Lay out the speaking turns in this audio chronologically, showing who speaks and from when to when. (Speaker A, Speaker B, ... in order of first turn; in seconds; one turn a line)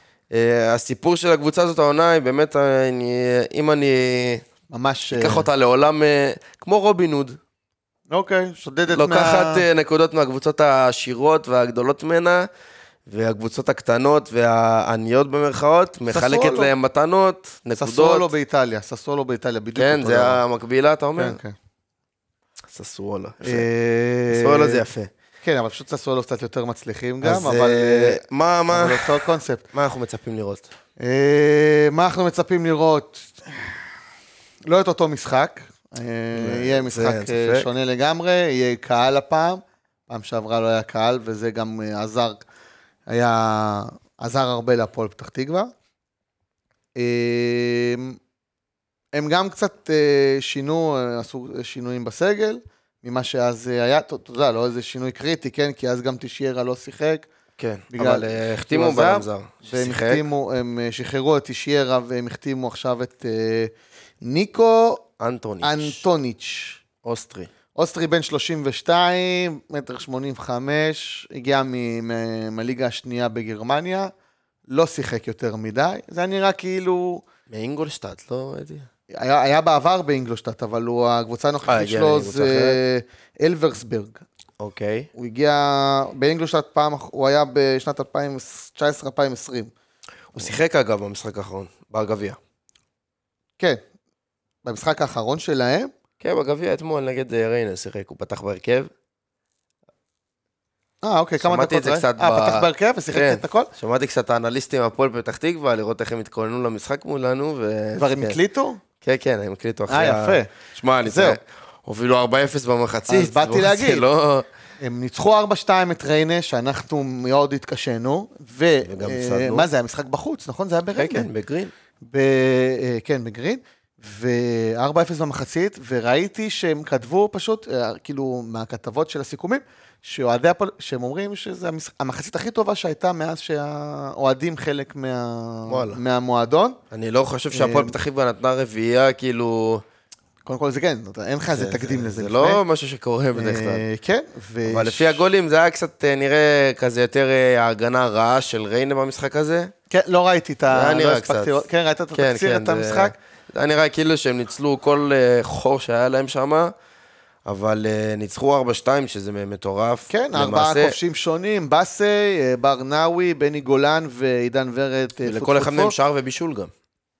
Speaker A: 0.3-4.5
Speaker B: 4.7-5.5
Speaker A: 5.1-7.4
Speaker B: 8.1-9.6
Speaker A: 8.9-12.5
Speaker A: 13.1-18.3
Speaker B: 16.1-16.7
Speaker B: 17.8-20.4
Speaker A: 19.8-21.4
Speaker B: 21.2-21.6
Speaker A: 22.7-23.7
Speaker B: 23.4-24.8
Speaker A: 24.3-25.1
Speaker B: 25.4-29.6
Speaker A: 27.2-30.7
Speaker B: 31.0-33.8
Speaker B: 34.7-42.4
Speaker A: 36.3-37.7
Speaker B: 43.1-45.7
Speaker B: 47.0-48.2
Speaker B: 49.1-57.3
Speaker A: 57.6-60.2
Speaker B: 57.9-65.1
Speaker A: 65.2-66.0
Speaker B: 65.6-66.8
Speaker A: 67.0-67.5
Speaker B: 67.8-74.1
Speaker B: 74.7-77.3
Speaker A: 77.5-78.9
Speaker B: 79.1-84.2
Speaker A: 81.7-82.8
Speaker A: 84.6-85.1
Speaker B: 85.2-89.7
Speaker A: 90.3-92.4
Speaker B: 94.6-95.9
Speaker A: 96.2-98.9
Speaker B: 101.0-103.7
Speaker A: 101.4-108.4
Speaker B: 108.0-108.8
Speaker A: 109.0-114.5
Speaker B: 109.9-111.4
Speaker B: 113.1-114.0
Speaker B: 114.8-121.3
Speaker A: 118.8-119.7
Speaker A: 121.0-121.7
Speaker B: 122.0-136.8
Speaker A: 135.7-136.0
Speaker A: 136.9-139.8
Speaker B: 137.5-137.9
Speaker B: 140.4-142.6
Speaker A: 141.5-143.8
Speaker B: 143.3-145.2
Speaker A: 144.7-149.7
Speaker B: 149.9-153.2
Speaker A: 150.7-151.6
Speaker A: 152.1-156.7
Speaker A: 157.5-161.0
Speaker B: 160.1-165.9
Speaker A: 165.2-166.7